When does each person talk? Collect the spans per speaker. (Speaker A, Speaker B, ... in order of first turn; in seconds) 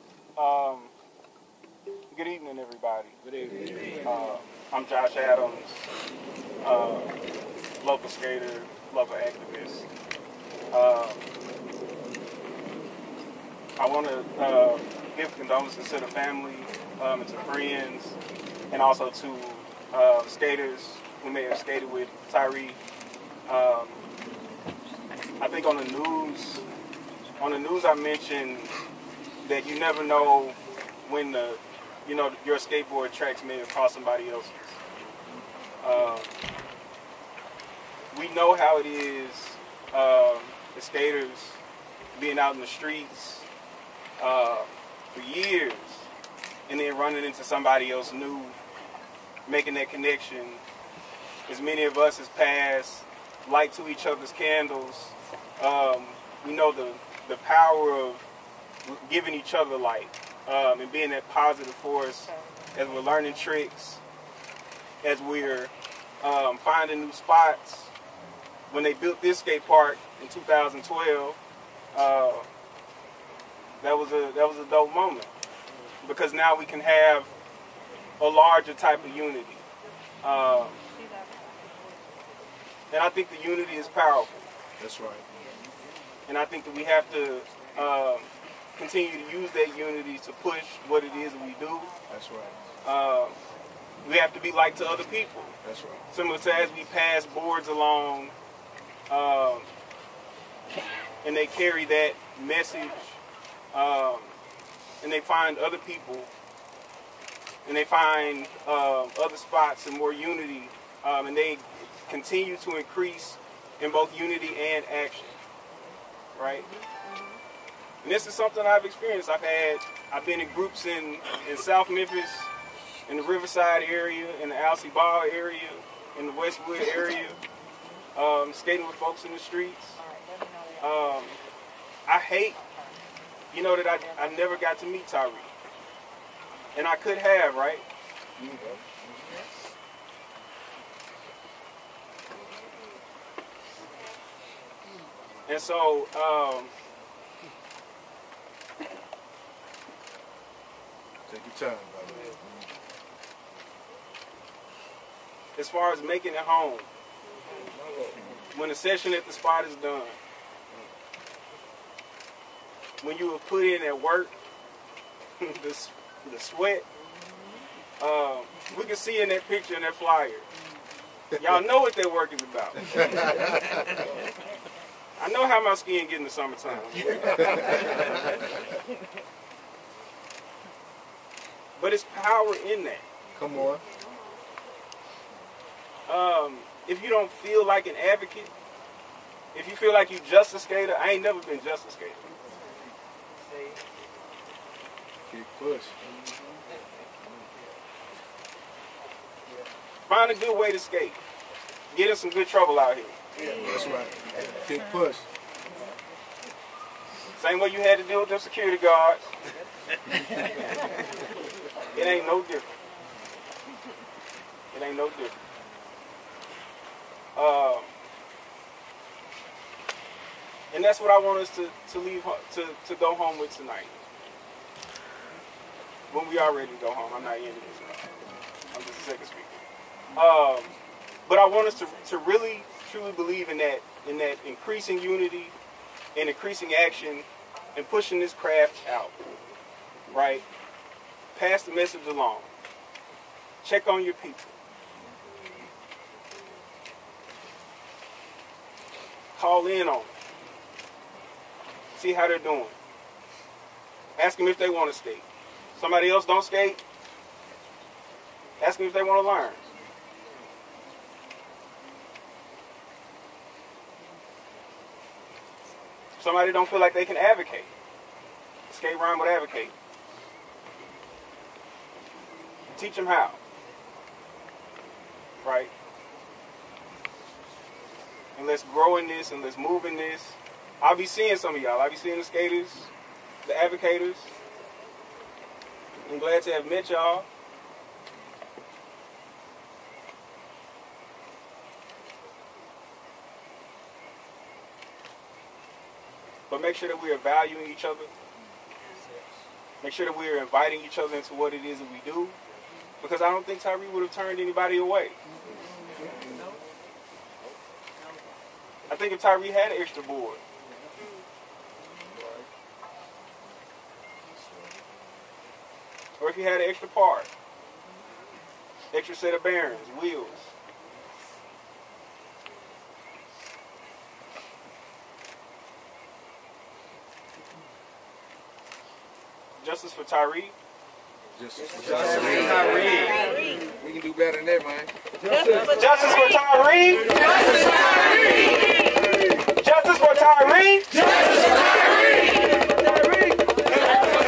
Speaker A: 0.3-0.9, 2.1-3.2, 4.0-5.9, 6.6-7.1, 7.8-9.9, 10.7-11.3, 13.8-18.2, 18.7-22.8, 23.5-24.0, 25.4-26.6, 27.4-28.7, 29.4-34.8, 35.8-36.3, 38.1-41.6, 42.1-43.5, 44.2-46.1, 46.7-48.5, 49.5-50.6, 51.5-58.2, 58.8-64.0, 65.0-67.9, 68.7-71.4, 71.9-72.5, 73.8-75.3, 76.0-77.3, 78.2-79.6, 80.2-80.8, 82.9-84.3, 86.3-91.9, 92.8-93.4, 94.0-95.5, 96.1-98.3, 99.1-99.7, 101.2-103.2, 103.7-104.4, 105.0-106.3, 107.6-115.4, 116.3-116.7, 118.0-122.5, 123.1-127.4, 128.1-130.0, 130.8-131.4, 132.1-132.6, 133.5-135.5, 136.7-137.8, 145.4-146.7, 155.6-156.9, 158.5-160.2, 163.0-164.3, 165.4-166.8, 168.0-170.5, 171.3-173.2, 175.2-177.8, 181.8-183.0, 186.1-188.5, 189.5-192.2, 200.1-201.2, 201.9-203.2, 207.4-209.3, 211.9-212.7, 214.7-215.3, 217.3-217.9, 220.7-224.0, 226.1-228.1, 228.7-229.6, 230.1-230.7, 231.3-235.5, 236.1-239.1, 240.1-240.4, 241.3-242.5, 243.6-244.5, 249.3-250.1, 251.9-252.8, 254.2-255.2, 255.8-256.8, 258.6-259.6, 266.2-267.7, 268.7-269.7, 272.7-273.4, 275.4-275.7, 278.3-282.9, 283.4-284.3, 286.1-287.3, 296.5-298.1, 299.8-302.4, 303.0-305.2, 308.9-310.4, 316.2-317.3, 318.9-320.5, 329.6-330.5, 332.3-333.3, 335.6-337.2, 339.6-341.1
Speaker B: 3.4-3.9, 84.8-85.2, 92.1-92.5, 95.6-96.0, 138.4-139.0, 151.3-152.3, 183.3-183.8, 195.3-196.0, 203.5-205.3, 312.2-312.4, 331.4-332.9, 333.8-334.9